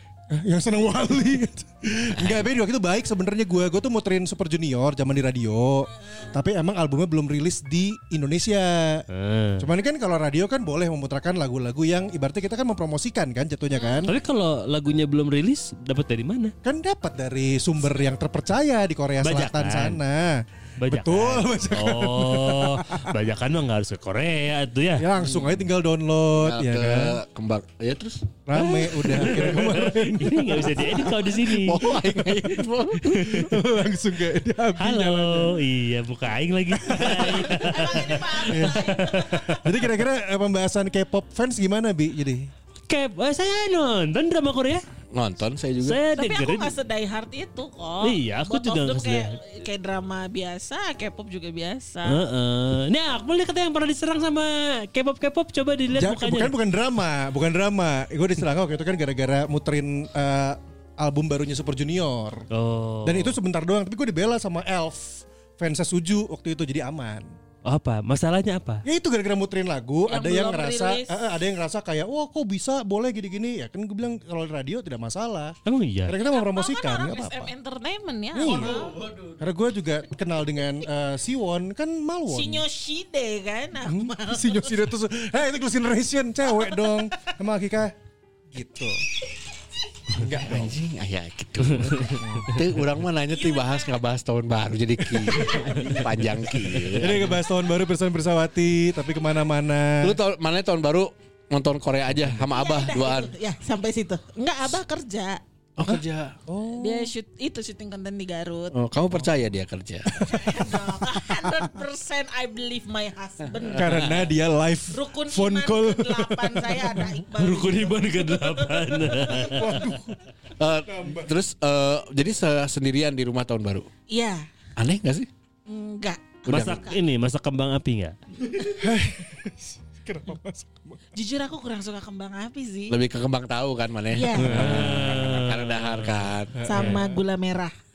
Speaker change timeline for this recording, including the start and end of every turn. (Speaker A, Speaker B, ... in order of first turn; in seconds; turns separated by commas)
Speaker A: 0.3-9.1, Speaker B: 9.1-9.7, Speaker A: 9.6-14.1, Speaker C: 13.7-14.1, Speaker B: 14.1-16.5, Speaker A: 16.6-23.1, Speaker B: 19.2-20.0, Speaker B: 20.8-25.1, Speaker A: 25.0-27.2, Speaker D: 25.2-25.6, Speaker D: 26.4-28.4, Speaker A: 28.5-31.2, Speaker B: 28.6-31.9, Speaker D: 31.5-33.4, Speaker B: 33.0-33.5, Speaker A: 33.1-35.6, Speaker B: 34.8-39.6, Speaker A: 36.8-37.3, Speaker C: 37.0-39.7, Speaker A: 38.5-42.5, Speaker B: 42.9-44.8, Speaker D: 45.1-46.0, Speaker B: 45.8-46.7, Speaker C: 46.1-52.2, Speaker B: 48.0-49.4, Speaker B: 52.1-56.5, Speaker A: 55.9-62.5, Speaker B: 62.5-63.4, Speaker A: 63.0-67.3, Speaker B: 67.7-68.8, Speaker A: 68.8-77.5, Speaker C: 70.1-71.1, Speaker B: 75.7-76.2, Speaker C: 76.2-79.0, Speaker A: 78.3-82.6, Speaker C: 82.3-84.8, Speaker A: 83.8-88.0, Speaker C: 86.5-87.1, Speaker A: 88.5-89.0, Speaker A: 90.2-90.8, Speaker D: 90.3-97.3, Speaker A: 92.1-92.6, Speaker C: 93.3-94.0, Speaker A: 95.1-96.3, Speaker C: 95.4-95.8, Speaker A: 96.9-100.2, Speaker D: 100.0-103.3, Speaker C: 102.5-105.4, Speaker D: 105.8-106.3, Speaker A: 105.8-107.1, Speaker C: 106.8-108.8, Speaker D: 108.7-110.4, Speaker C: 110.2-114.1, Speaker A: 110.2-110.6, Speaker D: 113.6-114.2, Speaker A: 113.8-117.1, Speaker C: 114.9-119.7, Speaker B: 117.3-120.0, Speaker A: 119.3-120.2, Speaker D: 120.6-123.9, Speaker A: 120.9-121.3, Speaker C: 124.1-124.5, Speaker D: 124.8-125.3, Speaker C: 125.7-127.0, Speaker D: 126.5-126.9, Speaker B: 126.5-128.2, Speaker A: 128.7-131.0, Speaker C: 131.1-133.0, Speaker D: 132.9-136.6, Speaker C: 134.1-134.8, Speaker B: 134.4-137.0, Speaker A: 134.5-135.4, Speaker A: 136.6-137.2, Speaker C: 136.7-137.7